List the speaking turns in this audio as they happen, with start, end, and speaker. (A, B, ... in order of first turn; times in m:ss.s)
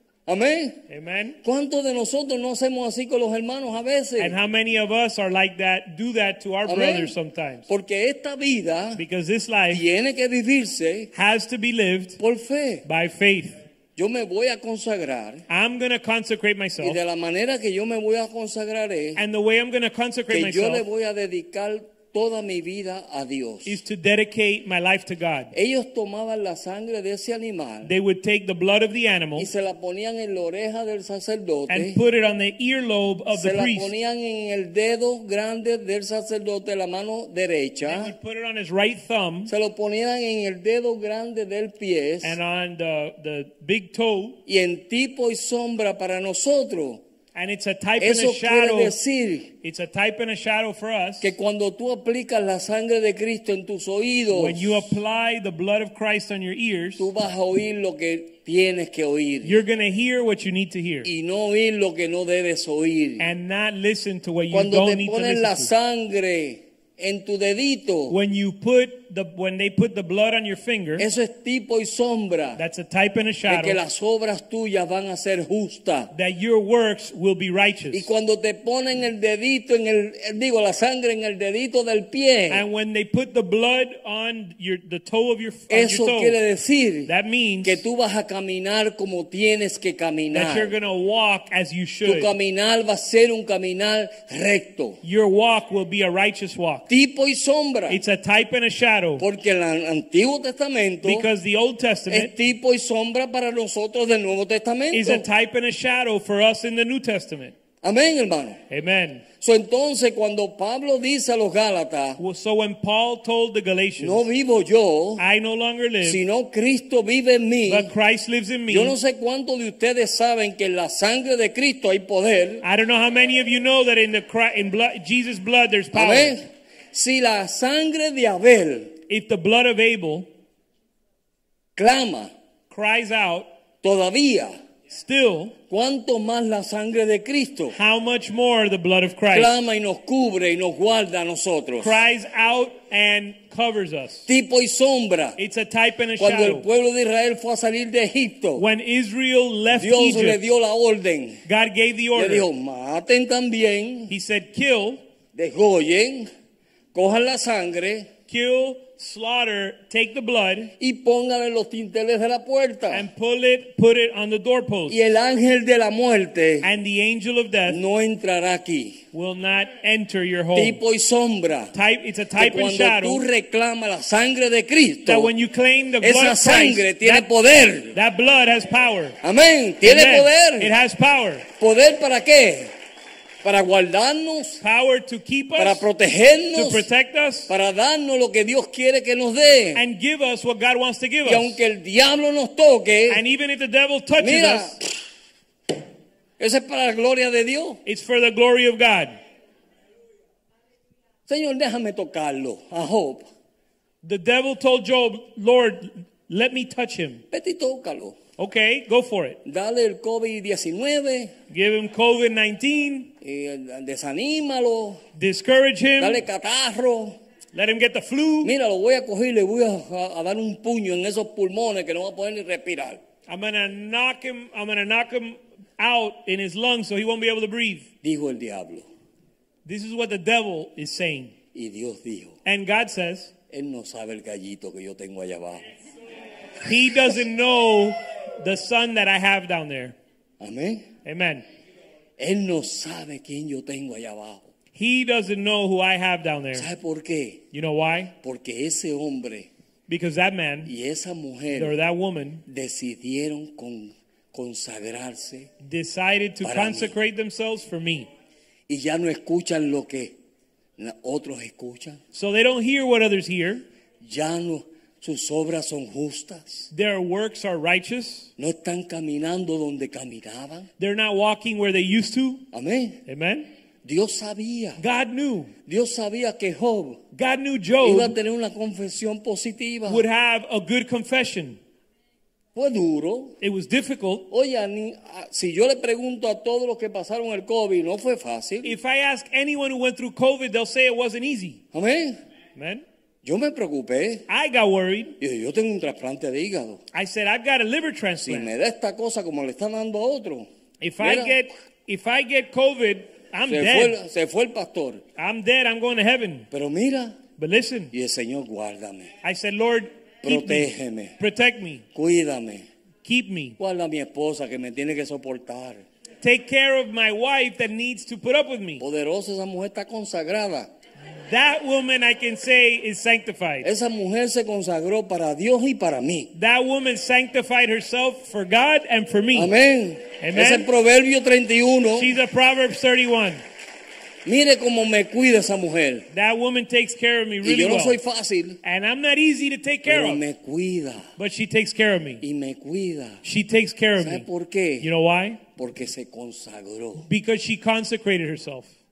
0:00.3-0:00.8 A
0:00.9-0:01.4 B
0:01.4-0:04.4 A
0:04.2-0:07.6 B
0:06.7-0:07.1 A
0:07.7-0:09.0 A
0:09.0-0:09.8 B
0:09.7-0:11.1 A
0:11.1-0:12.2 B
0:12.2-0:12.8 A
0:12.8-0:13.6 B
0:14.0-0:15.4 A
0:15.5-0:17.0 B
0:16.8-0:19.2 A
0:19.2-0:20.8 B
0:20.3-0:23.8 A
0:23.6-0:25.5 B
0:25.5-0:27.9 A
0:27.8-0:29.5 B
0:29.4-0:32.0 A
0:31.7-0:33.9 B
0:33.3-0:38.1 A
0:37.8-0:39.5 B
0:39.5-0:42.4 A
0:42.2-0:44.4 B
0:44.4-0:47.0 A
0:47.3-0:48.9 B
0:48.0-0:49.5 A
0:49.6-0:51.3 B
0:51.2-0:54.9 A
0:54.3-0:57.1 B
0:57.0-0:59.6 A
0:59.4-1:01.1 B
1:01.0-1:03.3 A
1:03.2-1:05.7 B
1:04.5-1:08.1 A
1:08.1-1:11.0 B
1:11.0-1:12.6 A
1:12.6-1:13.8 B
1:13.5-1:16.1 A
1:16.1-1:18.1 B
1:17.9-1:22.6 A
1:22.5-1:26.4 B
1:25.7-1:27.1 A
1:27.1-1:27.8 B
1:27.6-1:30.7 A
1:30.3-1:32.3 B
1:32.0-1:35.0 A
1:35.0-1:36.9 B
1:36.9-1:38.0 A
1:37.9-1:39.2 B
1:39.2-1:41.3 A
1:41.0-1:42.3 B
1:42.1-1:45.2 A
1:44.9-1:47.5 B
1:47.8-1:48.6 A
1:48.7-1:49.2 B
1:49.4-1:52.2 A
1:52.2-1:54.2 B
1:54.0-1:55.2 A
1:55.2-1:56.2 B
1:56.0-1:57.9 A
1:57.7-1:59.0 B
1:58.7-2:02.6 A
2:02.6-2:06.4 B
2:05.9-2:09.0 A
2:09.1-2:10.3 B
2:11.8-2:12.3 A
2:12.7-2:13.5 B
2:13.8-2:14.5 A
2:14.9-2:15.5 B
2:15.7-2:17.7 A
2:17.7-2:19.5 B
2:19.3-2:22.0 A
2:21.8-2:24.3 B
2:24.3-2:25.4 A
2:25.4-2:26.6 B
2:26.2-2:28.6 A
2:28.6-2:30.4 B
2:29.7-2:31.4 A
2:31.4-2:32.5 B
2:32.2-2:34.1 A
2:34.1-2:35.0 B
2:35.3-2:36.3 A
2:36.9-2:38.1 A
2:38.3-2:40.7 B
2:40.8-2:43.1 A
2:42.9-2:45.0 B
2:44.9-2:46.7 A
2:46.6-2:47.8 B
2:47.7-2:49.0 A
2:49.1-2:50.8 B
2:50.5-2:51.7 A
2:51.7-2:53.2 B
2:52.4-2:55.3 A
2:55.0-2:57.3 B
2:56.0-2:58.0 A
2:57.9-2:59.2 B
2:59.2-3:00.7 A
2:59.8-3:01.4 B
3:01.6-3:02.7 A
3:03.4-3:04.6 A
3:04.6-3:05.8 B
3:05.6-3:06.9 A
3:06.5-3:07.5 B
3:07.5-3:09.8 A
3:09.7-3:11.6 B
3:11.2-3:13.2 A
3:13.1-3:14.8 B
3:14.2-3:14.9 A
3:16.4-3:17.8 A
3:17.8-3:19.2 B
3:21.3-3:23.2 A
3:24.0-3:27.2 B
3:27.3-3:28.2 A
3:28.4-3:29.4 B
3:29.4-3:31.3 A
3:31.5-3:33.1 B
3:33.2-3:35.0 A
3:35.2-3:36.2 B
3:36.0-3:37.2 A
3:37.5-3:38.5 B
3:38.4-3:43.0 A
3:43.3-3:47.9 B
3:48.0-3:48.8 A
3:49.6-3:51.3 B
3:51.5-3:52.4 A
3:52.4-3:53.3 B
3:53.5-3:55.6 A
3:56.6-3:59.9 B
4:00.4-4:00.9 A
4:01.0-4:01.4 B
4:02.2-4:04.5 A
4:04.7-4:06.7 B
4:06.5-4:07.4 A
4:07.5-4:08.1 B
4:08.2-4:09.5 A
4:09.9-4:10.7 B
4:10.6-4:11.7 A
4:11.5-4:12.4 B
4:12.5-4:15.5 A
4:15.6-4:18.1 B
4:16.4-4:16.9 A
4:18.7-4:20.1 A
4:20.8-4:22.0 A
4:22.1-4:23.6 B
4:24.0-4:26.7 A
4:26.7-4:28.3 B
4:28.4-4:30.7 A
4:30.8-4:32.4 B
4:32.5-4:33.0 A
4:33.1-4:33.5 B
4:33.8-4:34.8 A
4:34.8-4:35.5 B
4:35.6-4:37.0 A
4:37.1-4:38.2 B
4:37.8-4:40.0 A
4:39.9-4:41.6 B
4:42.5-4:43.4 A
4:43.4-4:44.3 B
4:44.3-4:48.8 A
4:48.6-4:51.6 B
4:51.7-4:52.2 A
4:52.6-4:52.8 B
4:53.2-4:54.2 A
4:54.3-4:55.2 B
4:55.2-4:56.8 A
4:56.9-4:58.5 B
4:58.2-5:00.5 A
5:00.8-5:04.0 B
5:01.0-5:01.4 A
5:03.5-5:05.0 A
5:05.2-5:06.5 B
5:06.5-5:07.2 A
5:07.4-5:07.9 B
5:07.9-5:09.1 A
5:09.2-5:11.8 B
5:10.2-5:11.2 A
5:11.9-5:12.6 A
5:13.0-5:13.6 B
5:13.6-5:15.8 A
5:16.2-5:18.8 B
5:18.8-5:20.7 A
5:21.2-5:23.7 B
5:23.6-5:26.3 A
5:26.3-5:29.5 B
5:29.3-5:32.1 A
5:30.2-5:30.7 B
5:32.0-5:33.4 B
5:34.2-5:36.1 A
5:36.1-5:38.0 B
5:37.4-5:38.6 A
5:38.6-5:40.2 B
5:39.8-5:41.1 A
5:41.2-5:42.2 B
5:42.2-5:43.2 A
5:43.2-5:44.2 B
5:44.0-5:44.9 A
5:44.8-5:45.4 B
5:45.6-5:47.0 A
5:47.1-5:48.7 B